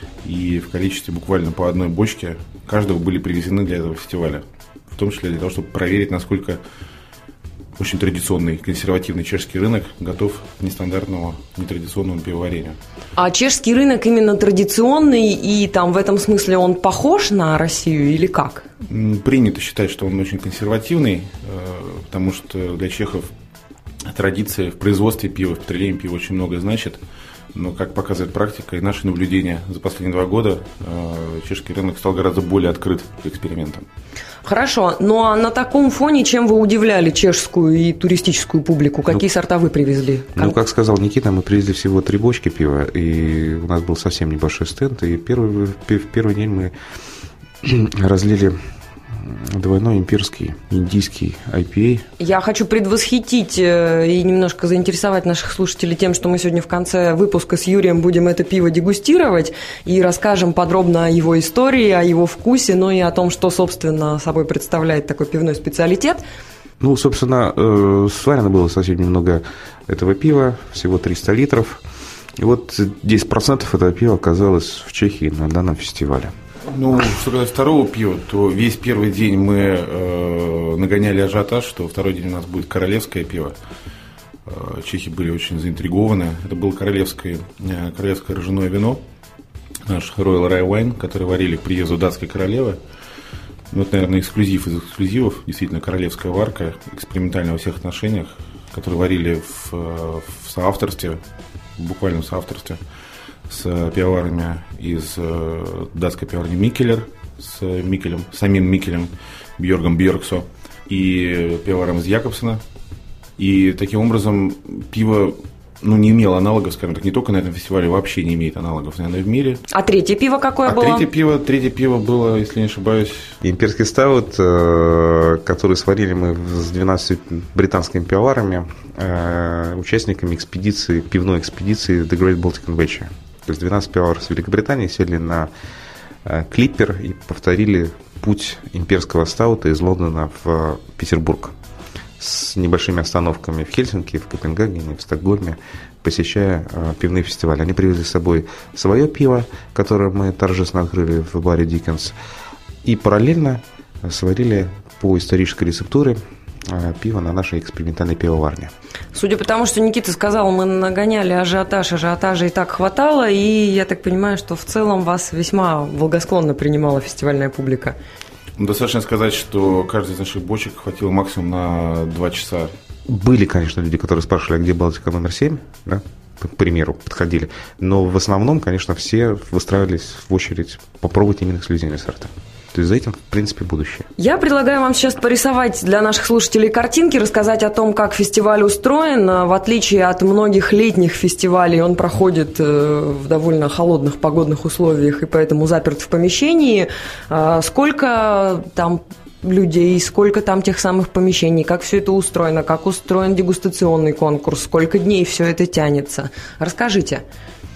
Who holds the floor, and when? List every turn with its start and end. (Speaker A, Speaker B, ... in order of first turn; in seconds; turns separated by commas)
Speaker A: 0.2-6.6, Speaker A: 7.8-12.8, Speaker B: 13.2-18.6, Speaker A: 18.9-23.3, Speaker A: 24.1-27.0, Speaker A: 27.5-33.9, Speaker B: 34.4-40.6, Speaker C: 40.4-46.7, Speaker C: 47.6-48.6, Speaker C: 49.1-52.1, Speaker B: 52.2-66.2, Speaker C: 66.8-71.8, Speaker C: 72.4-76.3, Speaker A: 76.7-83.5, Speaker A: 84.5-89.0, Speaker A: 89.9-92.8, Speaker A: 93.7-101.2, Speaker A: 101.8-102.8, Speaker A: 103.5-112.6, Speaker A: 113.4-119.6, Speaker B: 119.7-121.1, Speaker A: 120.7-123.4, Speaker C: 123.4-135.5, Speaker C: 136.2-141.6, Speaker C: 142.2-152.2, Speaker C: 152.8-158.7, Speaker B: 159.1-168.0, Speaker A: 168.6-172.7, Speaker C: 173.1-184.1, Speaker B: 184.2-207.2